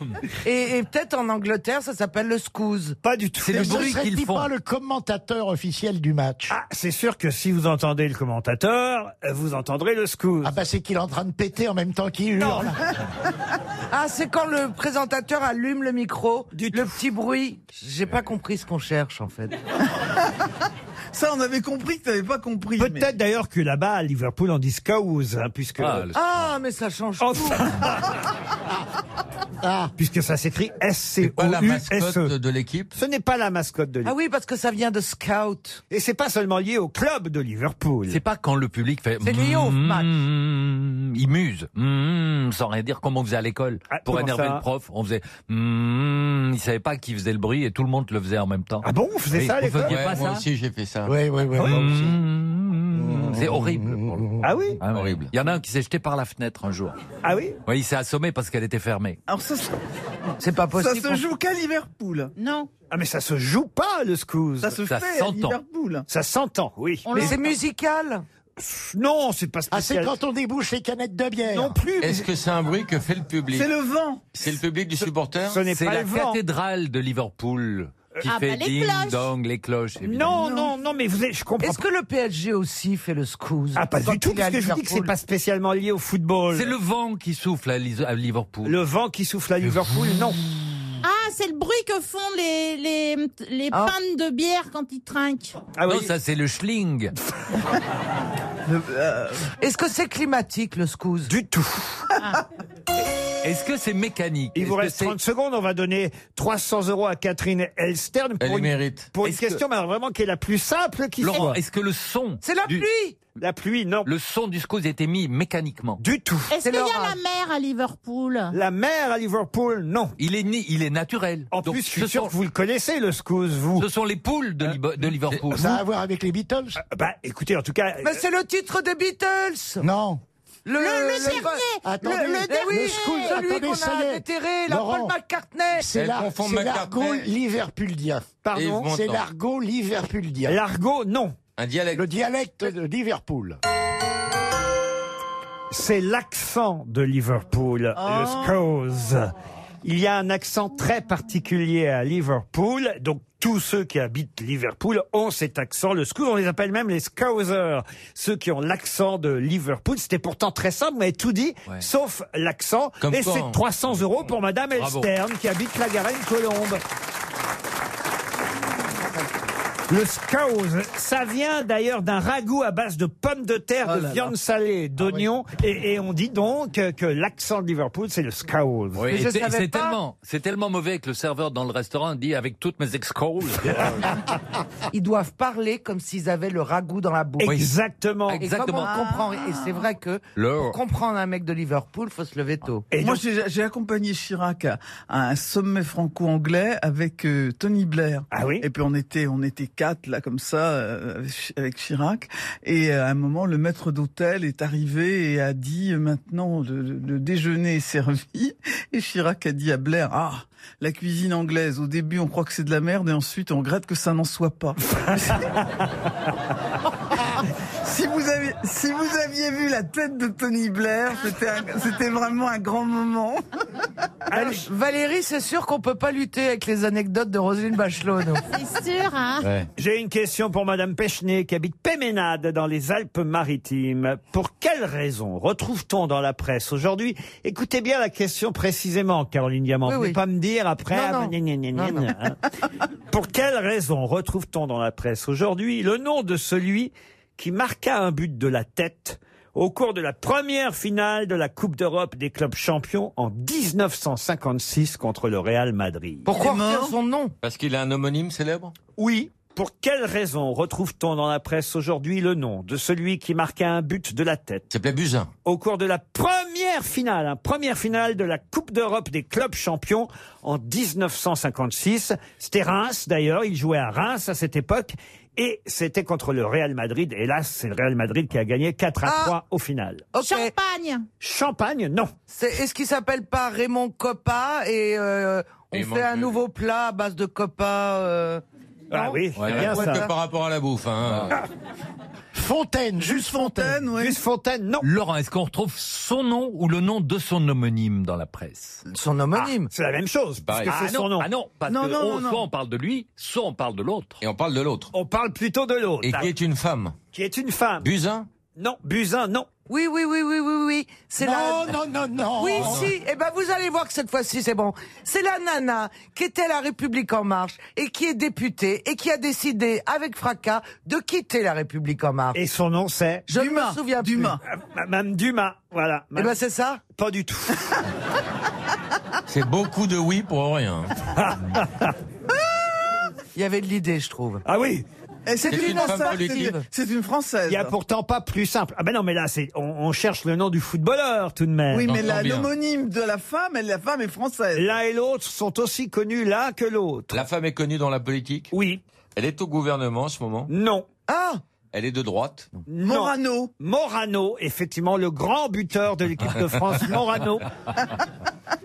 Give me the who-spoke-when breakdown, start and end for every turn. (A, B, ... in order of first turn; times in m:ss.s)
0:00.4-0:03.0 A
0:03.0-0:03.9 B
0:03.4-0:04.5 C
0:03.5-0:06.6 D
0:06.5-0:10.5 B
0:10.4-0:12.8 D
0:12.4-0:12.7 B
0:13.9-0:19.6 A
0:16.5-0:17.0 B
0:21.1-0:23.1 E
0:22.8-0:26.0 B
0:25.8-0:26.5 C
0:26.1-0:27.8 A
0:27.2-0:27.9 B
0:29.6-0:29.9 D
0:30.0-0:32.3 B
0:31.2-0:33.0 F
0:33.0-0:34.1 B
0:34.0-0:35.8 A
0:35.9-0:38.2 B
0:38.1-0:50.4 C
0:39.2-0:40.2 A
0:43.9-0:44.6 B
0:48.8-0:50.2 B
0:49.8-0:51.1 F
0:51.0-0:52.2 D
0:51.6-0:54.2 C
0:53.0-0:54.3 D
0:54.4-0:54.8 B
0:54.8-0:57.0 C
0:54.9-0:55.4 F
0:57.2-0:57.6 B
0:57.6-0:59.2 C
0:59.3-0:59.7 E
1:00.4-1:01.2 A
1:00.7-1:02.3 E
1:02.4-1:02.7 G
1:02.9-1:04.8 B
1:04.6-1:06.0 E
1:04.9-1:05.6 C
1:06.1-1:07.4 B
1:07.0-1:07.5 G
1:07.1-1:08.2 A
1:08.6-1:10.1 B
1:09.7-1:11.8 D
1:11.5-1:12.3 B
1:12.0-1:13.7 F
1:13.5-1:14.4 E
1:14.4-1:15.6 F
1:15.4-1:16.4 B
1:15.7-1:20.4 C
1:18.2-1:19.3 G
1:20.0-1:21.8 B
1:20.4-1:20.7 E
1:21.6-1:25.1 A
1:23.8-1:26.7 B
1:26.5-1:28.8 C
1:28.6-1:30.4 B
1:31.0-1:35.6 G
1:35.8-1:36.1 B
1:35.9-1:37.1 C
1:38.7-1:39.5 E
1:39.6-1:41.3 A
1:41.3-1:42.0 B
1:43.4-1:45.1 C
1:44.6-1:51.6 B
1:48.4-1:49.2 F
1:49.2-1:49.6 C
1:51.2-1:52.9 C
1:52.4-1:53.2 A
1:53.4-1:54.1 B
1:54.0-1:56.0 C
1:56.0-1:56.5 B
1:56.5-1:58.5 G
1:56.6-1:57.2 A
1:58.5-2:00.1 B
2:00.2-2:02.3 C
2:01.5-2:03.9 B
2:03.8-2:05.8 C
2:05.5-2:06.8 D
2:06.9-2:08.2 B
2:08.0-2:09.9 A
2:09.8-2:10.2 D
2:10.6-2:15.9 A
2:10.8-2:13.4 G
2:11.8-2:15.2 D
2:15.8-2:20.6 D
2:15.9-2:17.3 F
2:18.4-2:18.9 B
2:18.5-2:19.2 F
2:20.4-2:21.4 B
2:21.6-2:22.0 F
2:21.9-2:23.6 D
2:25.7-2:29.3 B
2:28.0-2:28.5 E
2:29.8-2:46.8 B
2:43.0-2:44.0 F
2:44.8-2:45.1 C
2:49.9-2:59.0 B
2:53.8-2:54.3 E
2:59.0-3:04.1 C
2:59.1-3:00.0 A
3:04.9-3:07.7 A
3:07.4-3:08.4 B
3:08.3-3:08.9 C
3:08.4-3:12.9 A
3:08.8-3:09.6 E
3:10.4-3:10.8 C
3:12.9-3:13.2 B
3:13.0-3:35.5 E
3:18.3-3:18.6 B
3:37.8-3:43.4 E
3:44.3-3:44.7 B
3:44.3-3:48.4 A
3:48.5-3:49.5 G
3:49.4-3:49.7 F
3:49.8-4:02.4 B
3:59.9-4:00.2 A
4:00.9-4:02.1 A
4:03.1-4:16.3 B
4:16.2-4:17.3 A
4:16.3-4:16.9 E
4:17.4-4:18.8 F
4:19.0-4:24.7 B
4:24.7-4:25.3 F
4:25.4-4:40.1 B
4:39.0-4:39.3 A
4:40.1-4:40.5 A
4:40.2-4:41.1 G
4:41.2-4:42.1 B
4:42.3-4:50.1 A
4:45.7-4:46.4 F
4:48.9-4:50.1 B
4:49.4-4:49.7 C
4:49.4-4:51.4 F
4:52.3-4:53.8 D
4:53.0-4:54.2 E
4:54.0-4:54.8 B
4:54.8-4:58.8 C
4:58.9-4:59.7 A
4:59.3-5:01.3 B
5:00.4-5:00.8 F
5:00.7-5:04.2 C
5:01.6-5:02.5 E
5:04.2-5:04.9 F
5:04.9-5:06.3 B
5:06.0-5:07.0 F
5:07.1-5:07.9 B
5:07.8-5:08.3 F
5:08.6-5:09.5 B
5:09.7-5:11.8 A
5:11.2-5:12.9 D
5:12.4-5:22.4 A
5:12.5-5:12.9 F
5:22.4-5:23.3 B
5:23.3-5:24.4 A
5:23.3-5:24.4 E
5:24.5-5:26.4 B
5:26.2-5:26.8 A
5:27.0-5:27.7 B
5:29.3-5:30.9 F
5:31.2-5:31.9 B
5:33.4-5:34.4 A
5:34.4-5:34.8 B
5:35.2-5:37.7 E
5:35.4-5:36.6 A
5:35.4-5:36.6 F
5:37.5-5:42.0 B
5:41.7-5:44.7 E
5:41.8-5:42.5 F
5:44.5-5:47.2 B
5:47.1-5:48.5 F
5:48.5-5:48.8 B
5:49.2-5:50.5 F
5:50.5-5:50.9 B
5:51.1-5:51.4 A
5:51.7-5:52.5 F
5:52.7-5:57.4 B
5:52.8-5:53.5 E